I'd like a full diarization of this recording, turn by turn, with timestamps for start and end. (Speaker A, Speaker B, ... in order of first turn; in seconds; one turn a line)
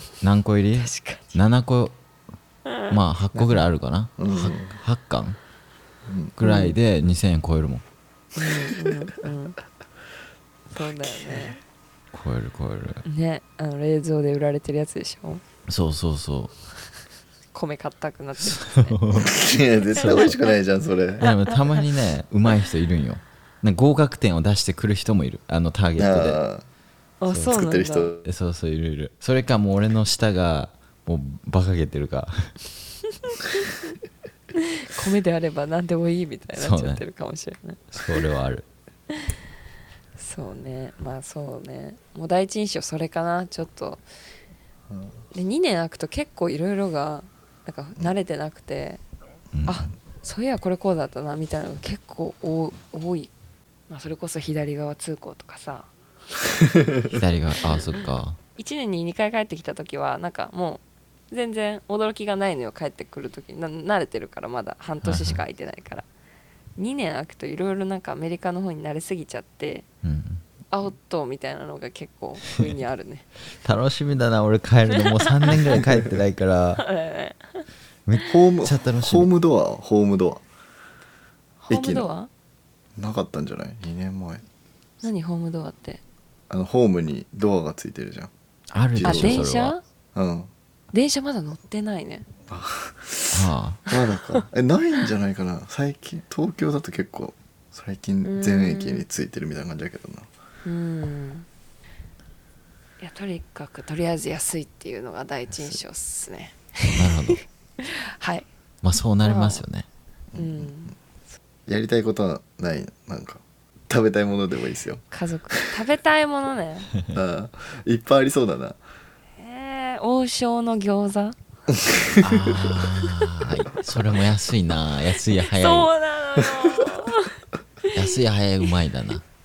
Speaker A: 0.2-1.9
Speaker B: 0.8-1.2
Speaker A: 2.9-5.4
Speaker C: 3.3-3.6
Speaker C: 4.2-4.8
Speaker C: 6.0-6.3
Speaker A: 6.4-7.8
Speaker B: 6.4-6.8
Speaker B: 8.3-9.6
Speaker B: 10.7-11.6
Speaker A: 12.1-13.0
Speaker B: 13.0-15.4
Speaker A: 15.7-16.5
Speaker B: 17.5-19.0
Speaker A: 18.4-19.4
Speaker C: 19.2-21.2
Speaker B: 19.9-20.4
Speaker A: 21.2-26.4
Speaker B: 21.2-21.5
Speaker C: 26.0-26.6
Speaker B: 27.2-28.1
Speaker C: 27.3-28.2
Speaker A: 28.2-32.5
Speaker B: 34.6-38.0
Speaker A: 36.5-37.0
Speaker A: 37.9-38.6
Speaker B: 40.2-44.0
Speaker B: 45.3-49.0
Speaker A: 49.5-49.8
Speaker B: 49.6-53.3
Speaker B: 53.9-55.9
Speaker A: 57.1-58.4
Speaker B: 57.6-66.0
Speaker A: 65.0-65.4
Speaker B: 66.8-69.8
Speaker A: 70.0-70.4
Speaker B: 70.7-73.2
Speaker A: 73.6-76.8
Speaker B: 75.0-75.7
Speaker B: 76.8-77.7
Speaker A: 78.1-79.3
Speaker C: 78.2-80.4
Speaker B: 81.6-82.3
Speaker C: 81.7-82.0
Speaker C: 83.0-84.4
Speaker B: 85.0-86.0
Speaker C: 86.5-88.3
Speaker A: 88.7-89.7
Speaker C: 88.9-89.5
Speaker B: 89.0-89.8
Speaker C: 90.1-90.5
Speaker B: 90.9-92.3
Speaker C: 92.5-100.3
Speaker A: 93.3-93.8
Speaker B: 98.2-99.0
Speaker B: 100.6-101.5
Speaker B: 103.0-108.5
Speaker A: 106.9-107.4
Speaker A: 108.8-109.8
Speaker B: 109.2-109.6
Speaker C: 110.3-110.7
Speaker B: 110.4-111.3
Speaker C: 111.7-115.0
Speaker B: 115.1-116.9
Speaker C: 117.1-118.8
Speaker B: 119.4-121.3
Speaker C: 121.7-122.3
Speaker A: 122.2-125.9
Speaker B: 125.3-128.0
Speaker A: 127.9-129.2